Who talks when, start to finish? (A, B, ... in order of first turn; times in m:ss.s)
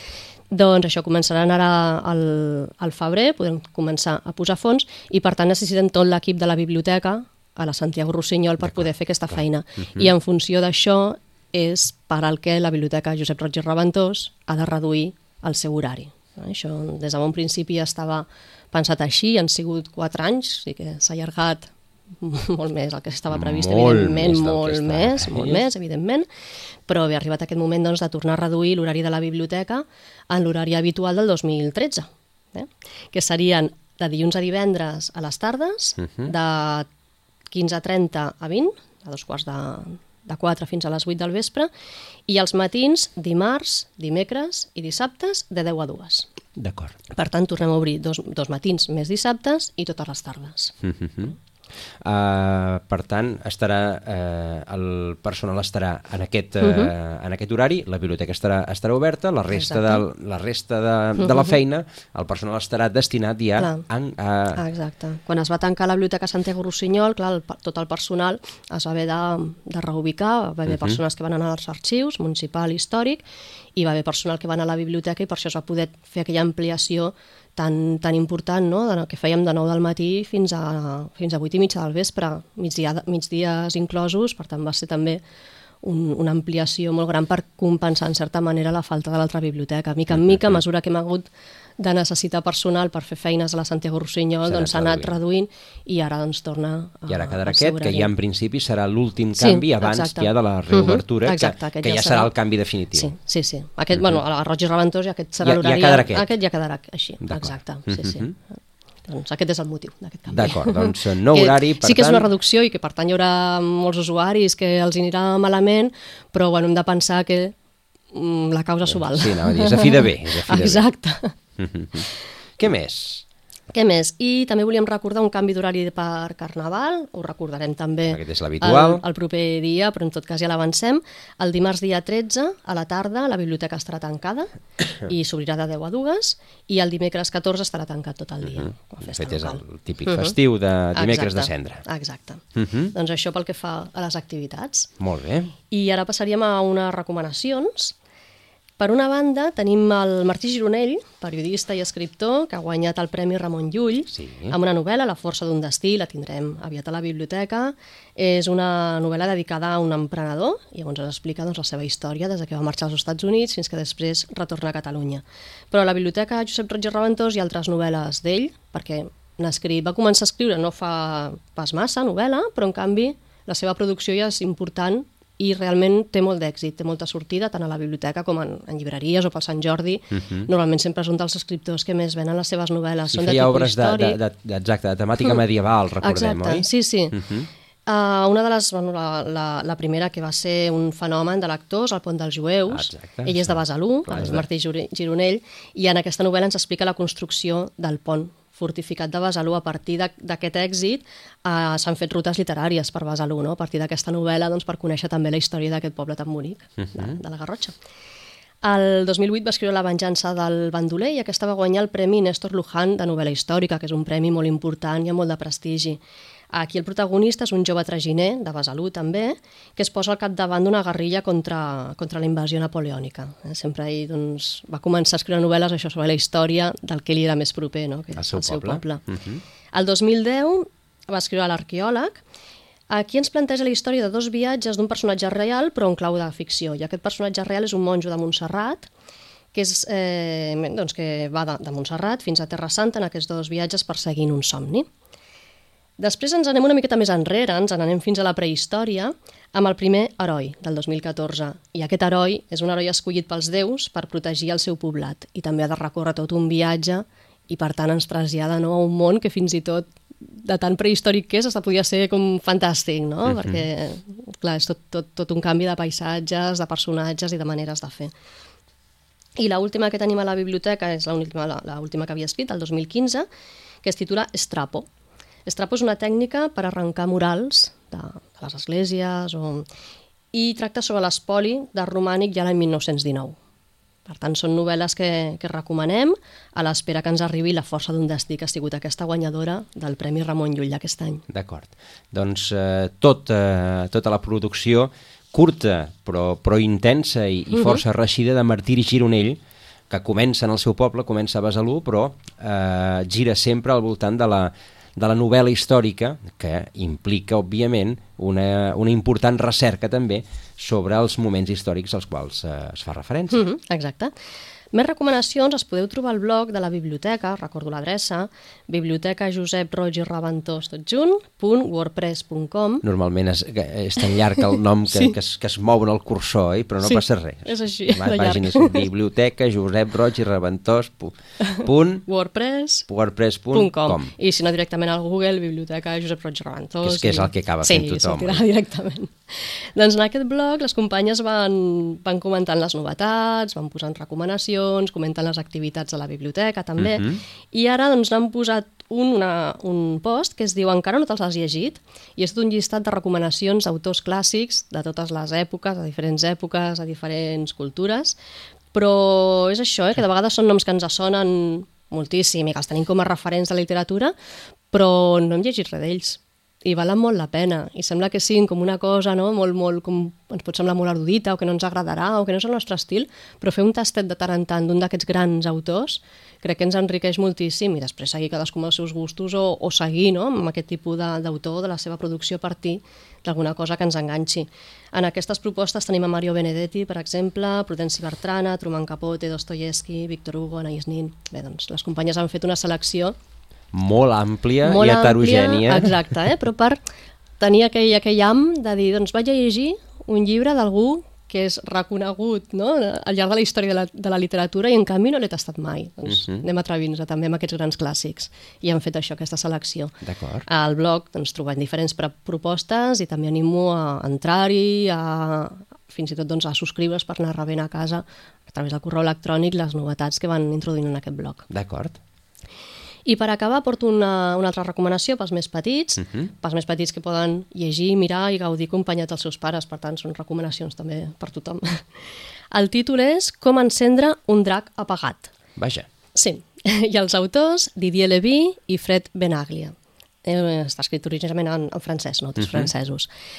0:00.5-0:26.3 A
0:23.3-0:25.6 B
0:26.9-0:36.9 A
0:37.5-0:41.7 A
0:42.3-0:46.3 A
0:46.6-0:47.0 B
0:47.1-0:50.7 A
0:50.8-0:51.4 B
0:52.0-1:04.6 B
0:56.6-0:56.9 A
0:59.5-1:00.0 A
1:01.2-1:01.5 A
1:03.6-1:03.8 A
1:04.6-1:13.2 A
1:10.7-1:11.0 B
1:13.8-1:25.2 A
1:25.8-1:38.1 A
1:30.2-1:30.6 B
1:34.4-1:35.2 B
1:37.1-1:43.1 B
1:39.4-1:42.3 A
1:42.9-1:48.3 A
1:45.4-1:46.3 B
1:47.2-1:48.3 B
1:49.1-1:57.5 A
1:50.3-1:52.3 B
1:58.1-2:01.3 A
1:59.0-2:00.8 B
2:01.6-2:02.1 B
2:02.6-2:03.2 B
2:03.7-2:14.5 A
2:08.1-2:09.0 B
2:15.0-2:20.4 A
2:18.6-2:21.8 B
2:20.9-2:24.9 A
2:22.6-2:22.9 B
2:25.0-2:25.5 B
2:25.7-2:28.0 A
2:28.8-3:04.2 A
2:34.1-2:34.6 B
3:03.1-3:07.5 B
3:06.0-3:07.2 A
3:07.9-3:27.8 A
3:12.7-3:14.4 B
3:28.6-3:36.0 A
3:36.5-3:49.0 A
3:48.2-3:49.4 B
3:49.7-3:52.2 A
3:52.9-3:58.9 A
3:59.5-4:04.9 A
4:06.0-4:28.1 A
4:29.4-4:33.3 A
4:33.8-4:34.9 A
4:35.5-4:39.7 A
4:40.3-4:43.4 A
4:44.1-4:51.2 A
4:51.3-4:59.4 B
4:59.9-5:13.4 B
5:13.3-5:14.1 A
5:14.7-5:22.8 A
5:22.8-5:32.1 B
5:26.8-5:28.9 A
5:32.1-5:32.9 A
5:32.9-5:34.1 B
5:33.5-5:58.2 A
5:36.8-5:38.4 B
5:46.8-5:47.2 B
5:58.7-6:04.1 A
6:04.7-6:33.2 A
6:33.7-6:36.0 B
6:34.6-6:36.8 A
6:37.4-6:49.9 A
6:50.0-6:50.5 B
6:50.5-7:01.5 A
7:01.5-7:02.0 B
7:03.1-7:11.9 A
7:12.5-7:15.3 A
7:15.6-7:15.9 B
7:16.2-7:23.1 A
7:22.4-7:22.7 B